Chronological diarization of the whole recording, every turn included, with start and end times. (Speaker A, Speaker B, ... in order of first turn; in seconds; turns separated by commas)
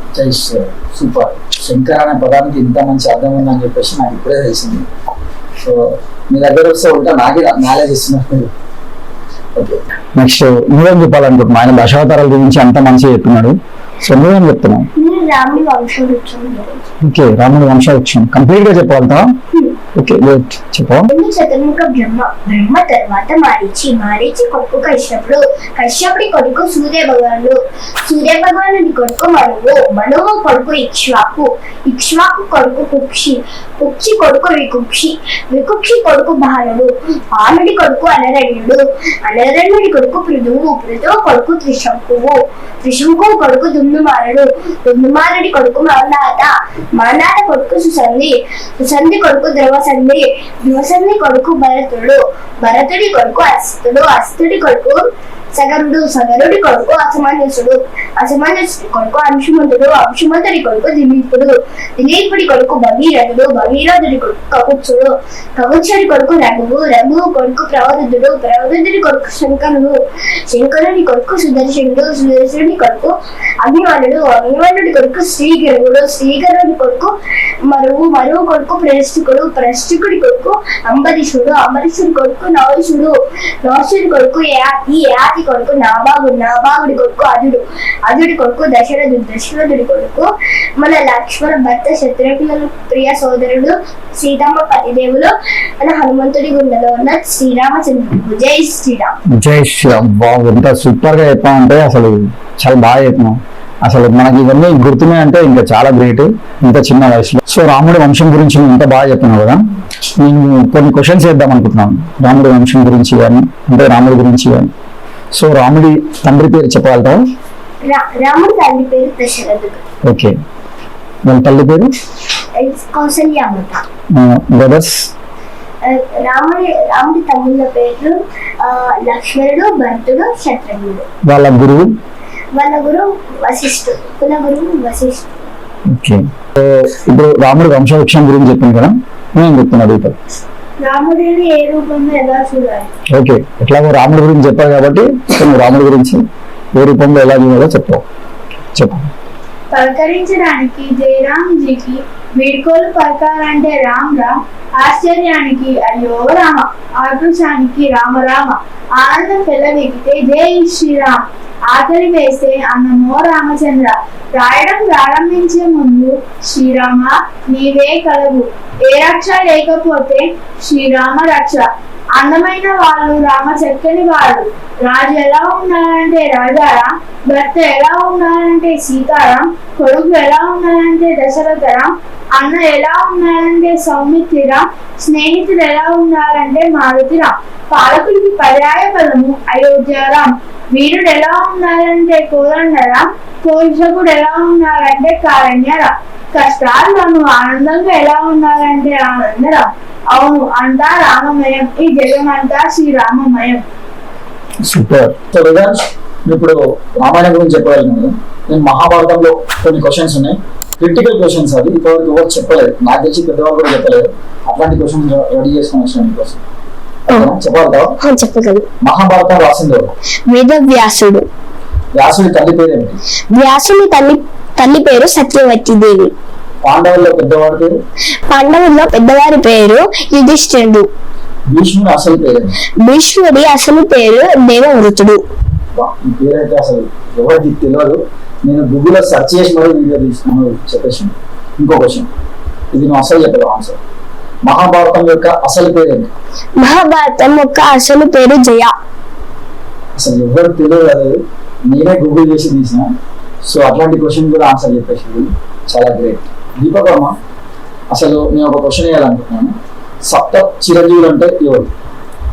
Speaker A: 0.1-4.9, Speaker A: 5.6-8.5, Speaker A: 9.6-14.9, Speaker B: 15.0-16.9, Speaker A: 17.0-19.4, Speaker A: 19.9-21.1, Speaker B: 21.1-77.1, Speaker B: 77.7-90.3, Speaker B: 90.8-99.2, Speaker A: 99.4-109.6, Speaker A: 110.2-114.7, Speaker A: 115.3-117.2, Speaker B: 117.9-119.8, Speaker A: 120.0-120.3, Speaker A: 121.2-121.9, Speaker B: 122.6-123.8, Speaker A: 124.1-125.1, Speaker B: 125.8-131.1, Speaker A: 131.2-131.9, Speaker B: 132.5-135.5, Speaker A: 135.9-140.2, Speaker C: 140.8-142.9, Speaker A: 143.1-146.2, Speaker A: 146.8-148.0, Speaker A: 148.8-149.1, Speaker C: 149.7-203.6, Speaker A: 204.6-216.4, Speaker A: 217.1-217.9, Speaker B: 218.0-218.7, Speaker A: 218.8-219.9, Speaker B: 220.3-221.2, Speaker A: 221.9-223.0, Speaker B: 223.3-226.1, Speaker A: 226.6-227.7, Speaker B: 228.3-230.9, Speaker A: 231.5-232.6, Speaker B: 232.8-235.2, Speaker A: 235.8-242.1, Speaker A: 242.7-243.8, Speaker A: 244.4-246.1, Speaker B: 246.6-248.7, Speaker A: 250.0-252.9, Speaker A: 253.4-257.2, Speaker A: 257.9-259.5, Speaker A: 260.1-261.7